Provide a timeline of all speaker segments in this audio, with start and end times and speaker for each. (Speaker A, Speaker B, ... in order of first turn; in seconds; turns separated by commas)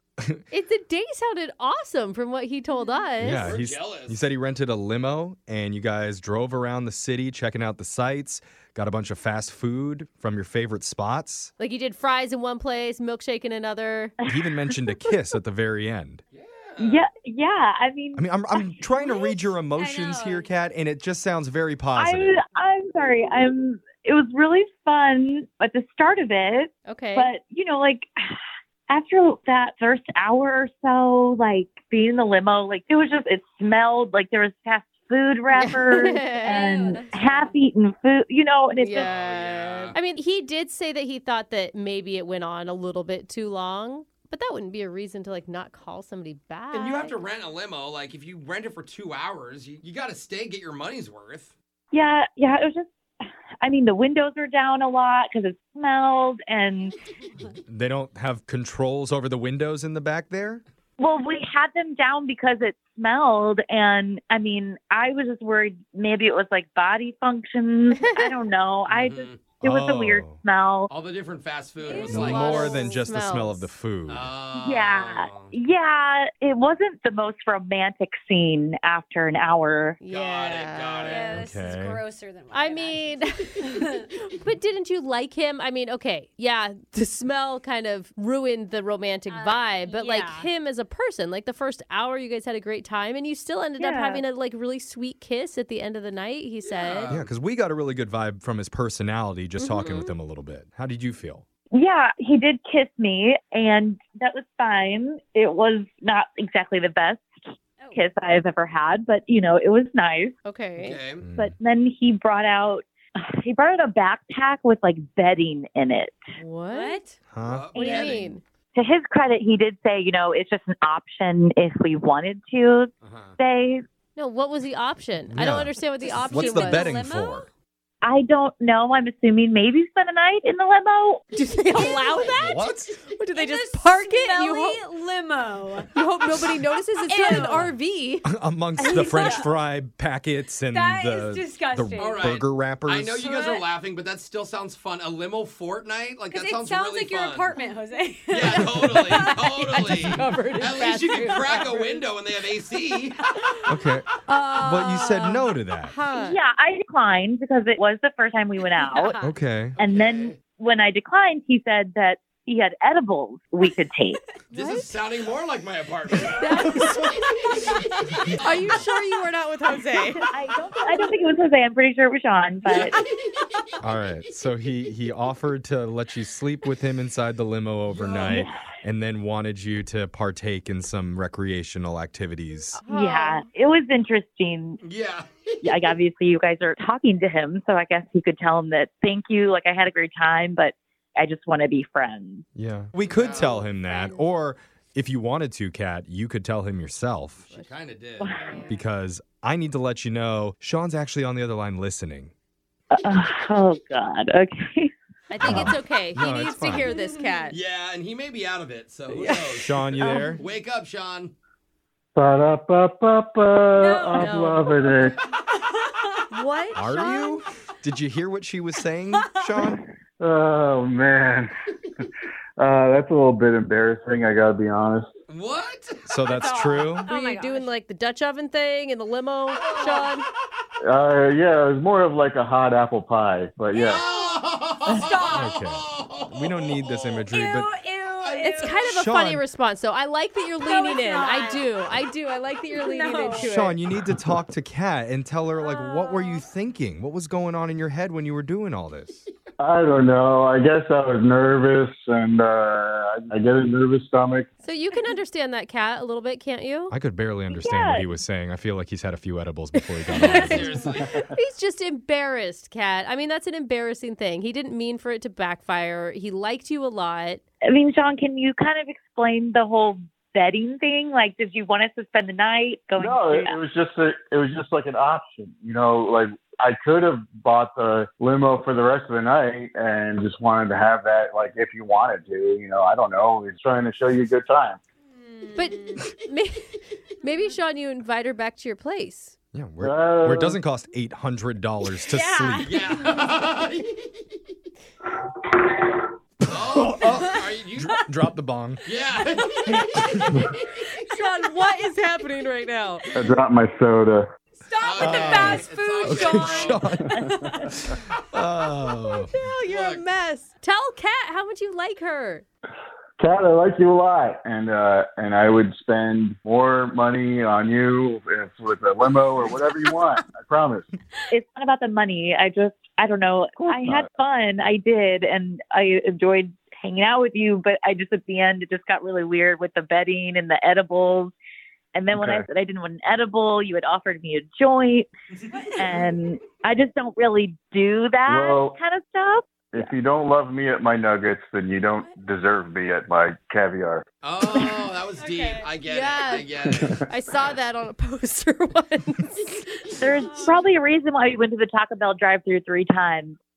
Speaker A: 0.5-3.5, Speaker B: 3.2-11.5, Speaker C: 3.2-4.2, Speaker A: 11.6-14.1, Speaker D: 14.2-14.7, Speaker B: 14.3-16.2, Speaker C: 16.3-17.1, Speaker D: 16.8-18.8, Speaker B: 18.1-22.3, Speaker E: 19.0-20.5, Speaker D: 21.9-39.1, Speaker A: 26.9-27.3, Speaker A: 35.5-37.4, Speaker E: 36.4-37.5, Speaker A: 38.8-47.1, Speaker C: 39.0-40.0, Speaker C: 46.7-51.5, Speaker D: 51.9-52.9, Speaker D: 53.6-56.9, Speaker B: 57.7-60.6, Speaker D: 61.0-70.9, Speaker A: 67.9-68.4, Speaker C: 68.9-69.5, Speaker B: 69.6-70.4, Speaker C: 70.9-72.7, Speaker E: 71.8-72.8, Speaker A: 72.0-73.7, Speaker B: 72.1-74.3, Speaker C: 74.1-75.5, Speaker D: 74.6-80.0, Speaker A: 80.0-81.3, Speaker C: 80.1-81.3, Speaker E: 81.0-84.1, Speaker B: 81.3-82.0, Speaker A: 82.5-97.1, Speaker E: 89.3-90.5, Speaker D: 93.8-94.2, Speaker C: 96.6-97.3, Speaker B: 97.1-101.4, Speaker A: 99.6-100.1, Speaker D: 101.7-110.3, Speaker A: 110.4-111.0, Speaker C: 110.8-111.3, Speaker B: 111.2-111.5, Speaker D: 111.3-116.2, Speaker A: 116.4-117.0, Speaker E: 116.7-117.2, Speaker B: 117.3-117.7, Speaker C: 117.4-118.4, Speaker A: 117.7-118.4, Speaker D: 117.8-118.2, Speaker D: 118.7-123.8, Speaker C: 123.0-123.4, Speaker A: 124.2-126.9, Speaker B: 125.3-127.5, Speaker E: 126.0-127.5, Speaker D: 128.0-131.2, Speaker A: 131.3-132.6, Speaker E: 131.7-132.8, Speaker B: 132.3-132.9, Speaker A: 133.1-134.8, Speaker E: 133.3-135.9, Speaker A: 135.9-138.3, Speaker E: 137.1-137.7, Speaker B: 138.2-143.3, Speaker E: 138.8-139.5, Speaker A: 138.9-139.4, Speaker E: 140.7-142.4, Speaker C: 141.9-147.5, Speaker E: 146.3-149.8, Speaker C: 148.3-153.3, Speaker A: 148.7-152.0, Speaker B: 153.7-155.9, Speaker A: 154.3-156.4, Speaker D: 156.2-159.2, Speaker E: 158.7-159.3, Speaker B: 159.2-159.8, Speaker C: 159.8-160.4, Speaker D: 159.8-164.2, Speaker A: 164.5-164.9, Speaker C: 164.5-168.8, Speaker A: 166.4-167.2, Speaker A: 168.4-170.2, Speaker D: 170.3-172.9, Speaker C: 172.7-173.3, Speaker B: 173.8-182.8, Speaker C: 178.1-178.4, Speaker D: 178.2-178.5, Speaker A: 182.8-183.5, Speaker D: 182.9-184.8, Speaker C: 184.8-186.0, Speaker D: 185.6-192.4, Speaker B: 192.5-197.5, Speaker C: 193.1-193.6, Speaker A: 193.8-194.2, Speaker C: 197.5-198.3, Speaker A: 198.3-198.7, Speaker B: 198.7-202.3, Speaker D: 202.9-204.9, Speaker A: 205.3-207.6, Speaker B: 205.4-206.9, Speaker E: 206.8-207.4, Speaker C: 207.5-211.3, Speaker A: 209.1-209.5, Speaker B: 209.5-210.4, Speaker A: 210.0-210.4, Speaker F: 212.1-215.2, Speaker E: 213.8-215.1, Speaker A: 214.1-214.6, Speaker E: 215.6-216.1, Speaker A: 216.3-217.4, Speaker B: 216.7-219.8, Speaker F: 220.2-221.5, Speaker F: 222.6-225.1, Speaker C: 225.3-226.0, Speaker B: 226.1-227.1, Speaker E: 226.2-227.7, Speaker A: 227.1-230.2, Speaker C: 229.6-230.1, Speaker E: 229.7-230.0, Speaker F: 230.8-234.0, Speaker E: 233.7-235.5, Speaker C: 233.8-237.3, Speaker B: 235.3-237.7, Speaker E: 237.3-238.8, Speaker C: 238.2-238.8, Speaker A: 238.4-243.8, Speaker B: 238.8-239.4, Speaker E: 240.6-241.7, Speaker E: 242.7-243.6, Speaker B: 243.4-249.2, Speaker E: 245.6-246.4, Speaker F: 249.6-254.5, Speaker A: 254.6-256.9, Speaker B: 256.9-260.7, Speaker D: 257.6-258.1, Speaker A: 260.1-260.8, Speaker C: 260.2-261.3, Speaker A: 261.3-267.4, Speaker D: 267.6-273.6, Speaker F: 273.0-284.8, Speaker E: 285.1-286.1, Speaker A: 285.5-289.3, Speaker B: 289.5-292.7, Speaker F: 289.8-290.6, Speaker E: 292.0-293.0, Speaker C: 292.6-294.1, Speaker C: 296.4-298.0, Speaker B: 296.7-298.8, Speaker C: 298.8-301.0, Speaker A: 301.1-303.0, Speaker F: 303.1-304.3, Speaker E: 304.6-307.7, Speaker C: 304.8-306.8, Speaker B: 305.0-307.1, Speaker B: 307.7-309.3, Speaker A: 309.3-312.4, Speaker C: 309.6-310.0, Speaker F: 313.2-320.9, Speaker D: 321.3-331.3, Speaker F: 323.6-324.1, Speaker D: 331.9-335.1, Speaker F: 332.1-332.5, Speaker E: 335.5-336.0, Speaker D: 335.8-339.9, Speaker F: 338.3-338.8, Speaker F: 339.7-344.0, Speaker C: 344.2-347.0, Speaker E: 345.2-345.7, Speaker A: 345.8-346.5, Speaker F: 346.6-347.0, Speaker A: 347.1-349.6, Speaker E: 350.0-350.7, Speaker D: 350.0-353.4